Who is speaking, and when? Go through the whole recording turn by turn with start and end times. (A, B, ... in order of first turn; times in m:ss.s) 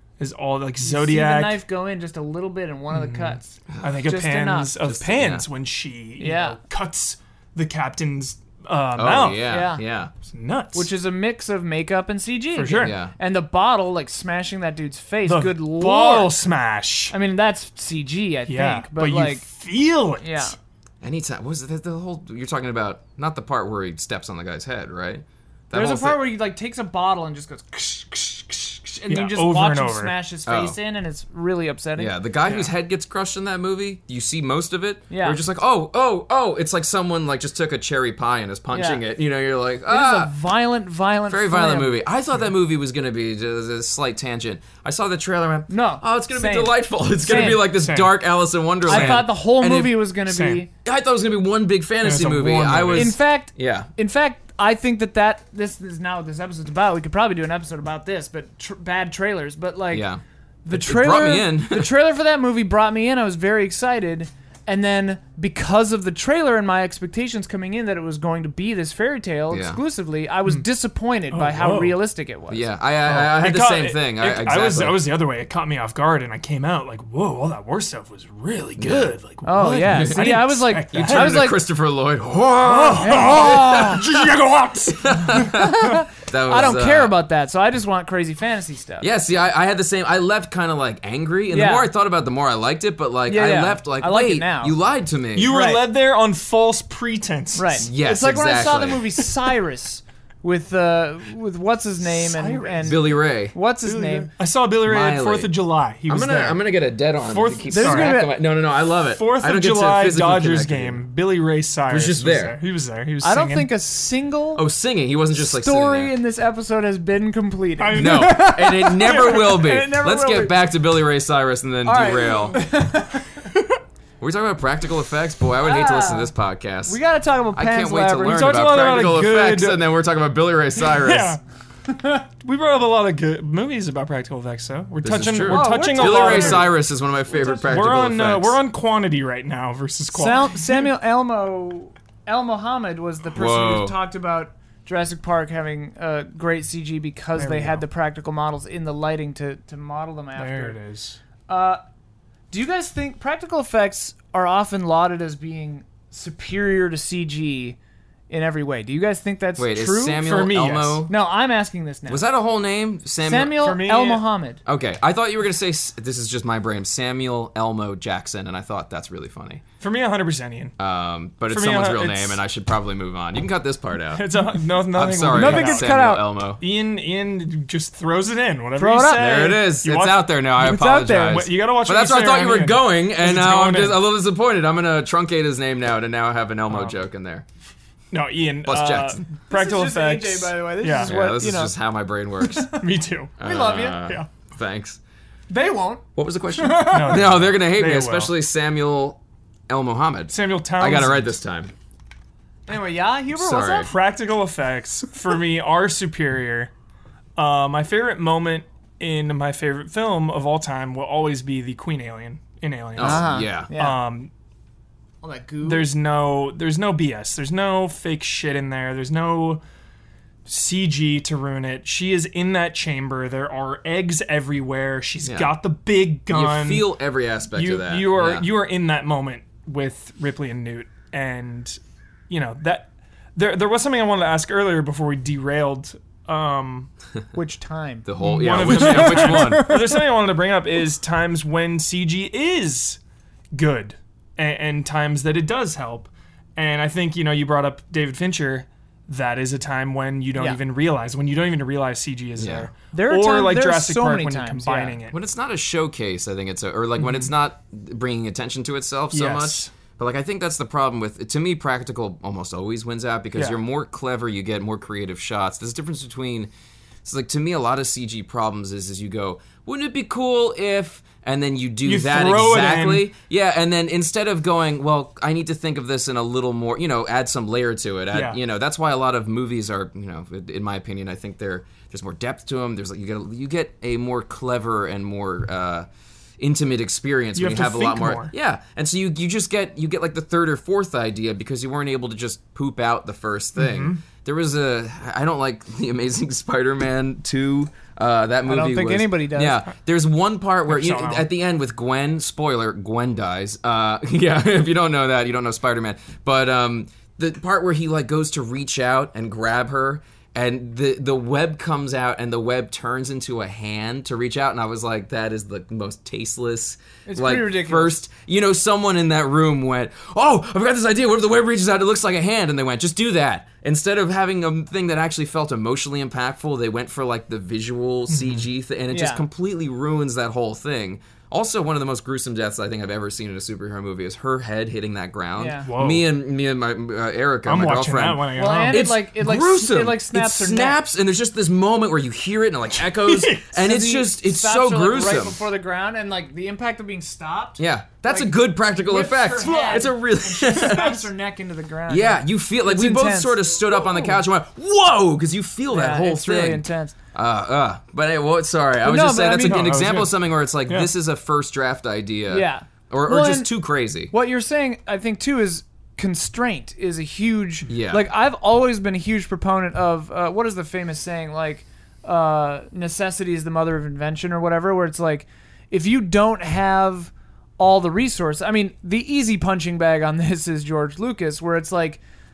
0:00.2-0:01.6 A
0:00.8-0:04.7 B
0:02.9-0:09.5 A
0:03.7-0:04.0 C
0:04.8-0:05.4 C
0:06.2-0:06.6 B
0:09.0-0:10.1 C
0:09.4-0:09.8 B
0:10.2-0:10.9 A
0:10.7-0:16.3 B
0:12.5-0:13.0 A
0:12.8-0:13.1 C
0:15.2-0:17.1 A
0:17.1-0:19.4 B
0:18.5-0:20.5 A
0:20.2-0:20.6 B
0:21.0-0:26.2 C
0:25.7-0:32.1 B
0:29.1-0:30.1 A
0:30.4-0:30.8 C
0:32.0-0:40.3 C
0:35.1-0:35.4 B
0:38.7-0:39.0 B
0:39.9-0:42.0 B
0:41.3-0:50.0 C
0:45.7-0:47.6 B
0:47.2-0:48.1 A
0:48.8-0:50.7 B
0:48.9-0:49.3 A
0:50.2-0:50.6 A
0:50.8-0:53.9 C
0:52.0-0:53.2 A
0:52.9-1:00.1 B
0:59.9-1:01.9 C
1:00.6-1:12.7 B
1:09.5-1:09.8 C
1:11.3-1:12.0 A
1:12.5-1:15.0 C
1:13.0-1:21.4 A
1:18.8-1:19.1 C
1:19.4-1:21.6 B
1:19.9-1:24.0 C
1:22.6-1:25.4 A
1:23.0-1:24.0 B
1:25.0-1:27.1 C
1:25.4-1:29.1 B
1:29.0-1:35.5 C
1:31.5-1:31.9 B
1:33.3-1:34.7 B
1:35.3-1:37.8 A
1:35.5-1:35.8 B
1:37.6-1:44.3 B
1:37.8-1:39.1 C
1:42.0-1:43.1 A
1:42.8-1:43.5 C
1:43.8-1:46.6 A
1:44.8-1:45.5 C
1:46.1-1:51.0 C
1:47.2-1:48.2 A
1:47.7-1:48.3 B
1:49.1-1:53.7 A
1:51.9-1:52.6 C
1:53.2-1:54.6 B
1:54.6-1:56.1 C
1:55.3-2:00.5 B
1:57.8-1:59.6 A
1:57.9-2:02.6 C
2:01.8-2:03.3 B
2:04.2-2:07.0 C
2:05.6-2:06.3 B
2:06.9-2:08.5 B
2:07.5-2:11.4 C
2:08.2-2:09.8 A
2:10.9-2:11.4 A
2:11.9-2:12.2 B
2:12.4-2:16.7 A
2:15.0-2:18.6 C
2:15.5-2:16.7 B
2:17.4-2:17.7 B
2:17.6-2:20.9 A
2:20.1-2:30.8 B
2:23.3-2:24.0 C
2:27.3-2:27.8 A
2:30.4-2:31.2 A
2:31.5-2:31.8 B
2:32.5-2:37.8 B
2:38.3-2:40.4 B
2:39.6-2:41.1 C
2:40.2-2:41.1 A
2:41.1-2:42.2 B
2:42.1-2:43.7 C
2:43.2-2:44.6 B
2:43.6-2:44.2 A
2:44.6-2:49.6 C
2:49.8-2:50.7 A
2:50.8-2:54.3 C
2:51.5-2:52.4 A
2:54.1-2:55.9 A
2:54.9-2:56.6 C
2:55.3-2:56.3 B
2:56.6-3:00.3 A
2:58.8-2:59.5 B
2:59.2-3:07.4 C
3:00.6-3:01.4 B
3:01.2-3:04.0 A
3:06.7-3:07.0 A
3:08.1-3:11.1 A
3:08.6-3:09.2 C
3:09.5-3:11.7 B
3:11.0-3:12.7 C
3:12.4-3:12.8 B
3:12.7-3:13.4 A
3:13.4-3:15.0 C
3:13.4-3:14.1 B
3:15.5-3:16.0 B
3:16.2-3:21.7 C
3:16.6-3:17.1 B
3:16.8-3:18.3 A
3:20.3-3:21.3 A
3:22.7-3:23.9 B
3:23.3-3:23.9 C
3:23.8-3:26.7 A
3:27.4-3:34.3 A
3:33.0-3:33.7 C
3:33.0-3:34.0 B
3:35.2-3:35.9 B
3:35.6-3:39.6 A
3:40.4-3:46.9 A
3:45.2-3:45.5 C
3:46.3-3:48.5 C
3:47.5-3:51.8 A
3:52.3-3:56.9 A
3:57.3-3:58.1 B
3:58.0-3:59.8 C
3:58.2-4:03.0 A
3:58.7-4:00.0 B
4:03.5-4:15.2 A
4:12.4-4:12.7 C
4:12.9-4:15.0 B
4:15.1-4:26.5 C
4:19.1-4:19.7 A
4:27.0-4:45.9 C
4:31.8-4:33.1 A
4:46.4-5:45.4 C
4:47.4-4:48.3 A
4:53.6-4:54.0 A
4:58.4-4:59.7 B
5:00.7-5:01.2 A
5:17.0-5:18.0 B
5:28.1-5:28.5 A
5:28.9-5:29.2 B
5:35.4-5:35.7 B
5:35.6-5:36.1 A
5:37.4-5:38.9 A
5:38.3-5:40.8 B
5:42.8-5:43.5 A
5:43.5-5:54.1 B
5:47.6-5:51.1 C
5:49.6-5:49.9 A
5:51.9-6:04.1 C
5:55.7-5:57.0 B
5:58.8-5:59.7 B
5:59.4-6:00.9 A
6:02.3-6:03.5 B
6:04.1-6:22.0 B
6:07.7-6:08.0 C